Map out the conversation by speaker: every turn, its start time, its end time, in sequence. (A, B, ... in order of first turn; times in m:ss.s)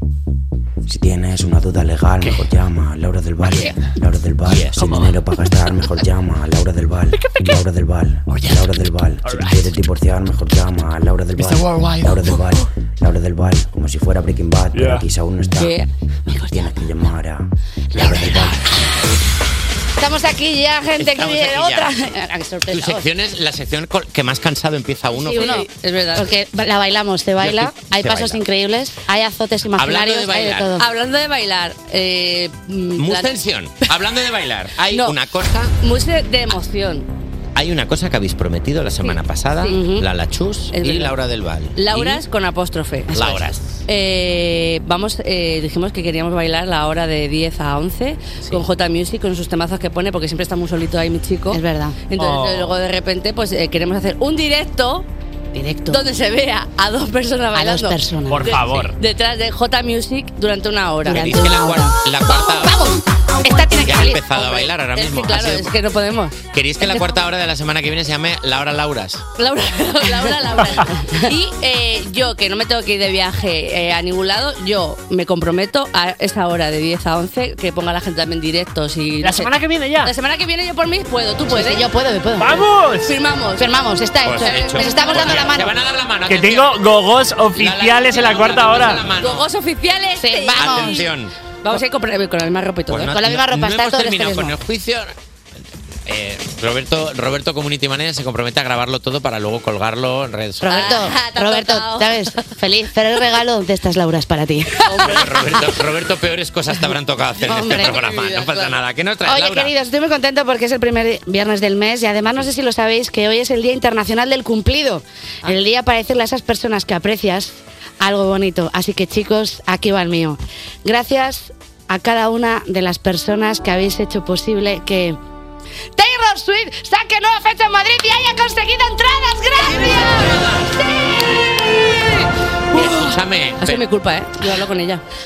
0:00.8-0:15.8 A
0:03.4-0:03.8 B
0:04.5-0:05.2 B
0:07.2-0:07.6 B
0:08.3-0:08.6 B
0:09.2-0:09.7 B
0:11.4-0:12.5 B
0:14.7-0:15.0 B
0:15.6-0:16.5 C
0:16.4-0:18.6 A
0:18.0-0:18.7 B
0:20.0-0:23.0 D
0:21.0-0:21.9 E
0:22.7-0:25.6 E
0:25.1-0:30.8 D
0:25.3-0:26.3 C
0:27.4-0:28.4 E
0:29.8-0:30.7 E
0:30.8-0:33.3 C
0:33.0-0:35.7 E
0:34.9-0:35.2 C
0:35.8-0:37.1 C
0:37.5-0:42.2 E
0:39.6-0:40.0 D
0:40.7-0:41.1 C
0:41.8-0:55.1 C
0:43.1-0:43.8 E
0:51.5-0:52.0 D
0:52.2-0:52.7 B
0:55.5-0:56.1 D
0:55.9-1:01.3 C
0:57.5-0:58.8 D
0:58.3-0:58.9 B
1:01.0-1:04.3 D
1:01.1-1:03.0 E
1:03.7-1:05.7 E
1:04.3-1:06.4 C
1:06.5-1:09.2 E
1:09.4-1:21.8 C
1:11.0-1:11.3 D
1:19.2-1:20.1 B
1:21.5-1:22.6 D
1:22.4-1:23.1 B
1:23.0-1:23.6 C
1:23.6-1:25.7 D
1:24.2-1:26.8 E
1:24.4-1:25.5 C
1:26.3-1:29.0 B
1:27.5-1:29.5 E
1:29.2-1:31.1 C
1:30.2-1:31.0 D
1:30.6-1:31.3 E
1:31.6-1:33.1 C
1:32.9-1:35.2 E
1:33.1-1:34.6 D
1:36.0-1:41.0 E
1:40.6-1:45.0 D
1:40.6-1:42.5 C
1:44.8-1:45.7 C
1:44.9-1:49.7 E
1:47.4-1:48.0 D
1:47.7-1:48.8 C
1:49.2-2:05.2 D
2:06.0-2:10.7 D
2:09.6-2:10.7 E
2:12.7-2:13.8 E
2:13.6-2:15.0 C